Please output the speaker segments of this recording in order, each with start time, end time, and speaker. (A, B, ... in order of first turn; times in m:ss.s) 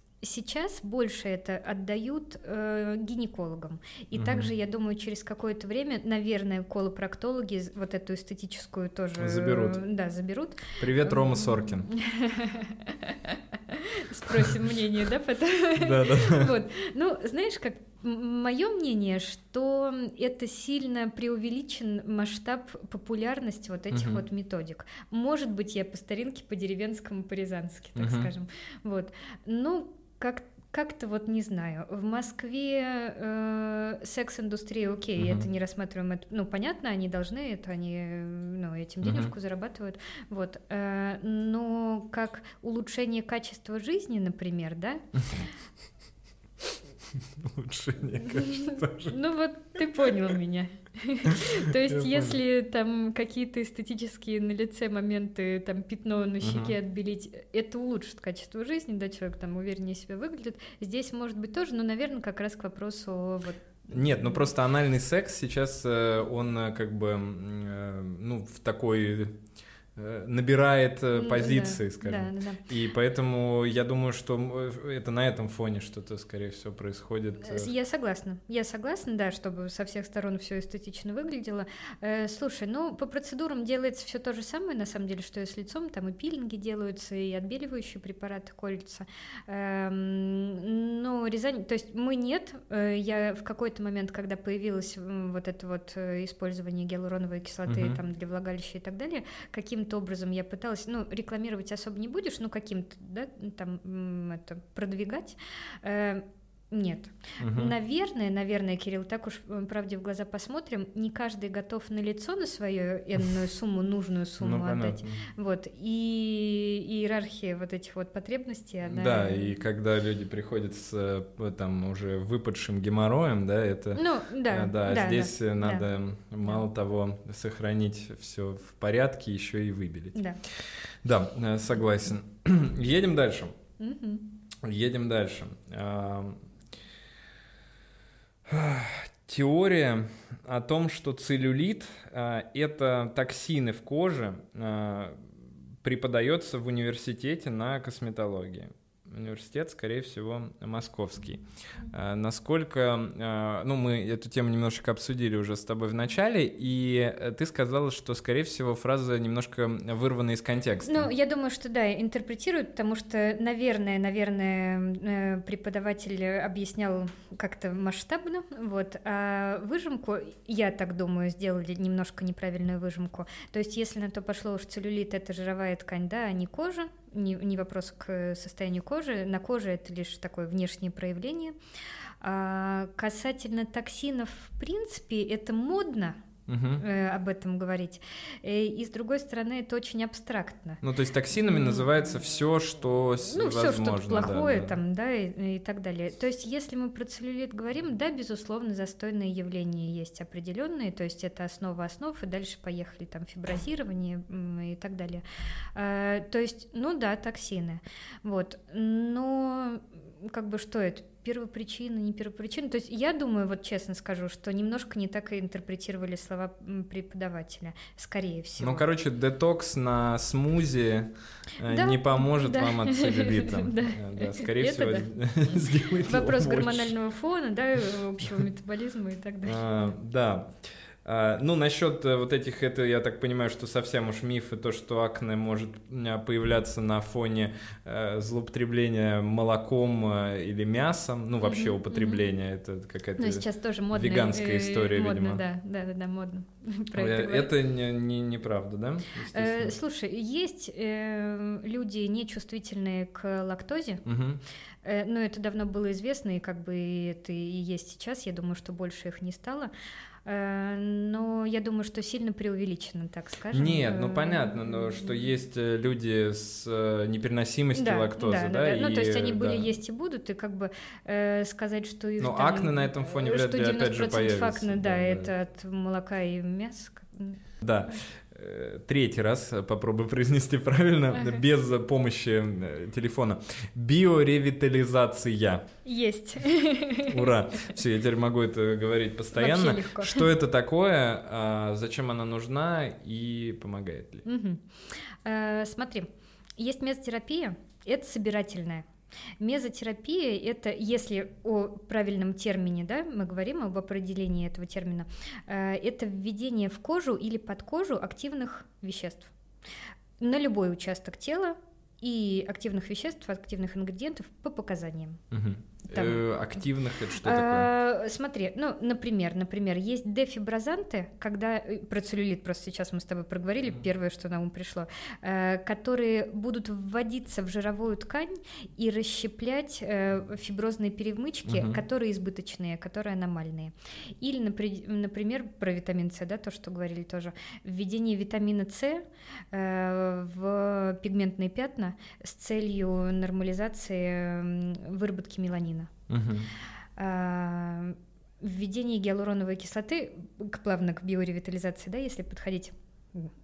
0:00.2-0:45.0 A
0:04.2-0:04.5 B
0:09.2-0:09.8 B
0:10.8-0:11.9 B
0:15.8-0:16.6 B
0:23.9-0:24.2 B
0:28.0-0:28.3 B
0:35.2-0:35.5 B
0:39.0-0:39.3 B
0:47.1-0:49.2 B
0:48.2-1:04.5 A
0:51.3-0:52.4 B
0:56.4-0:56.8 B
1:03.9-1:09.4 B
1:10.0-1:17.7 B
1:11.1-1:12.6 A
1:17.4-1:59.5 A
1:37.7-1:38.0 B
1:47.4-1:47.7 B
1:54.4-1:55.2 B
1:58.9-2:13.5 B
2:04.0-2:05.9 A
2:13.8-2:14.3 A
2:14.6-2:16.4 B
2:18.5-2:25.3 B
2:25.8-2:41.1 B
2:40.8-3:01.5 A
3:02.2-3:06.2 A
3:06.5-3:06.8 B
3:06.8-3:10.8 A
3:10.8-3:14.8 B
3:11.4-3:11.8 A
3:13.3-3:25.2 A
3:25.8-3:38.9 A
3:38.6-3:46.9 B
3:41.7-3:45.1 A
3:46.0-3:49.9 A
3:49.4-4:05.4 B
4:01.4-4:02.3 A
4:03.2-4:07.5 A
4:06.9-4:09.8 B
4:09.3-4:14.0 A
4:14.0-4:14.4 B
4:14.8-4:19.7 A
4:20.3-4:25.1 A
4:23.5-4:29.7 B
4:27.8-4:37.4 A
4:32.2-4:35.3 B
4:37.6-4:45.7 B
4:41.1-4:41.4 A
4:45.8-4:47.4 A
4:47.1-4:54.2 B
4:49.3-4:50.3 A
4:54.2-4:54.6 A
4:55.2-4:58.9 A
4:59.4-5:09.3 A
5:10.2-5:15.2 A
5:15.3-5:17.7 B
5:15.9-5:16.2 A
5:17.2-5:45.9 A
5:31.5-5:31.8 B
5:46.1-5:46.5 B
5:47.0-5:53.3 A